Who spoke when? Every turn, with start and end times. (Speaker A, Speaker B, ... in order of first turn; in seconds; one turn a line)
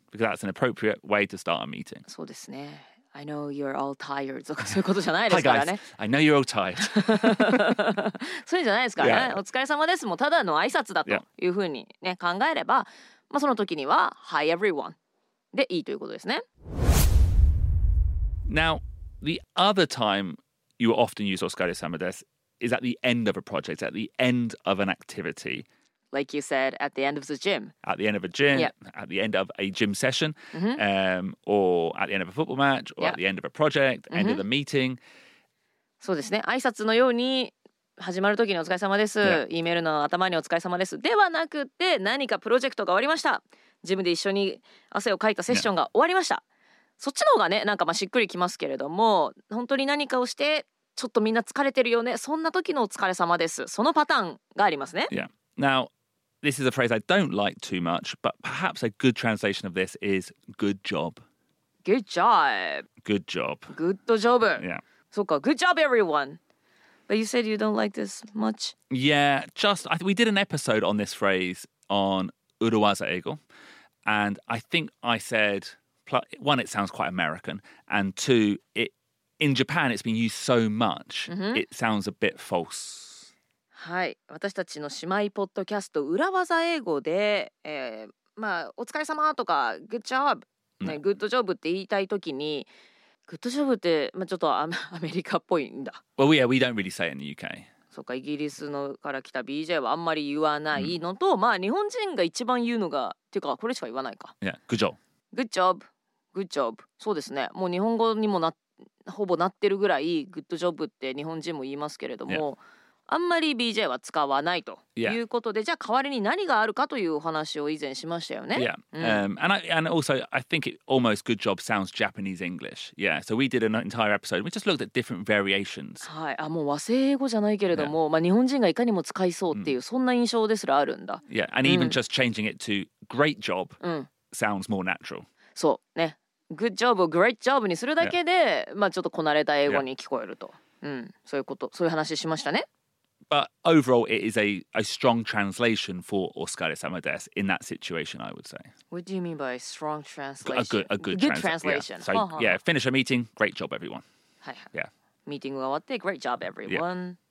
Speaker A: 0.1-2.0
Speaker B: 2.0-5.8
Speaker A: 5.3-7.7
Speaker B: 6.8-14.9
Speaker A: 9.0-9.4
Speaker B: 15.5-16.4
Speaker A: 18.5-25.6
Speaker B: 26.1-27.7
Speaker A: 27.8-35.0
Speaker B: 30.5-30.8
Speaker B: 34.1-34.4
Speaker B: 36.0-46.4
Speaker B: 47.0-55.1
Speaker A: 55.1-55.9
Speaker A: 56.4-61.2
Speaker B: 61.8-62.9
Speaker A: 63.0-63.7
Speaker B: 63.7-66.4
Speaker B: 67.1-68.7
Speaker A: 68.9-73.4
Speaker A: 74.0-83.3
Speaker B: 81.3-81.6
Speaker B: 83.7-92.7
Speaker B: 93.3-96.0
Speaker A: 96.2-97.7
Speaker B: 97.9-104.3
Speaker A: 104.4-105.0
Speaker B: 105.3-119.2
Speaker A: 118.5-126.1
Speaker B: 126.0-132.0
Speaker A: 131.3-133.8
Speaker B: 133.8-134.1
Speaker A: 134.3-135.2
Speaker B: 135.5-142.7
Speaker A: 143.3-148.7
Speaker B: 148.9-152.6
Speaker A: 150.4-154.0
Speaker B: 155.3-157.2